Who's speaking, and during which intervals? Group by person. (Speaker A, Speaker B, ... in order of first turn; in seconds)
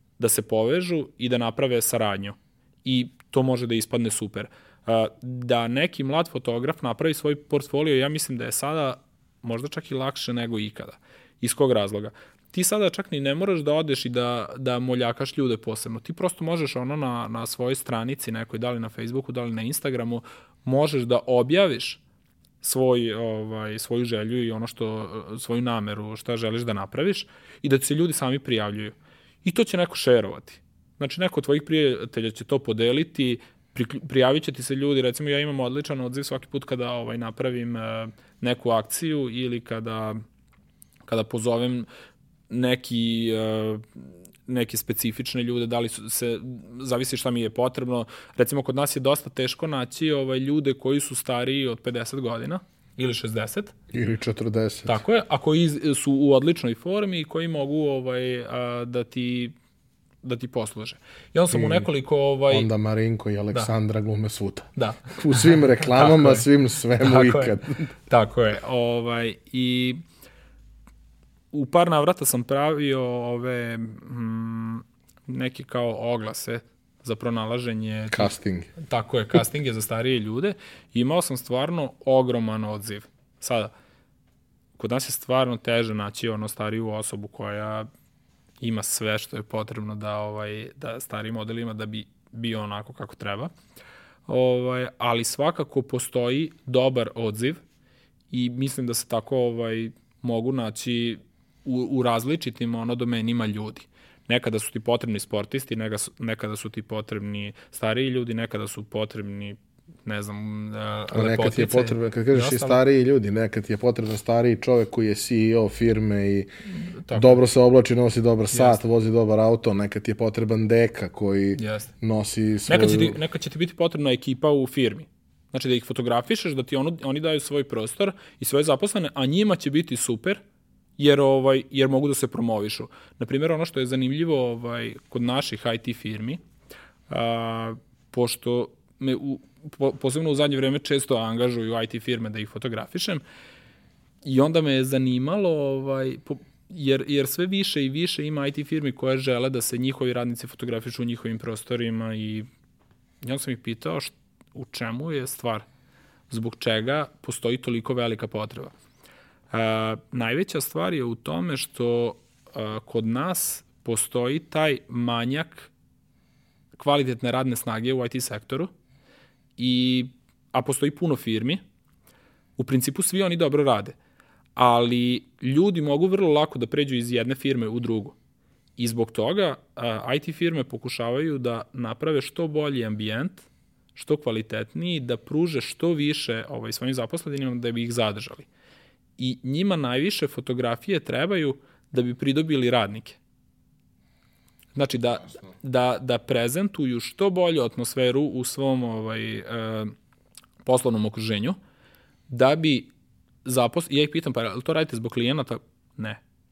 Speaker A: 0.2-22.0, 22.6-40.2, 41.1-41.9, 42.5-53.7, 54.9-59.5, 60.2-62.7, 64.8-66.5, 67.0-67.5, 68.1-70.0, 71.5-83.7, 84.8-87.9, 88.6-93.5, 94.3-97.6, 98.3-112.8, 116.7-117.4, 118.5-118.8, 121.5-121.9, 122.7-130.4, 131.0-136.4, 137.1-143.2, 144.2-152.5, 153.2-155.6, 156.3-158.7, 159.5-165.7, 166.8-168.7, 169.6-171.6, 172.6-173.9, 174.6-178.2, 178.8-188.5, 189.2-193.2, 194.7-199.9, 200.6-201.6, 202.3-202.9, 203.4-206.2
Speaker B: 53.9-55.0, 61.5-61.9, 62.5-67.9, 78.1-78.7, 111.1-116.5, 117.1-123.2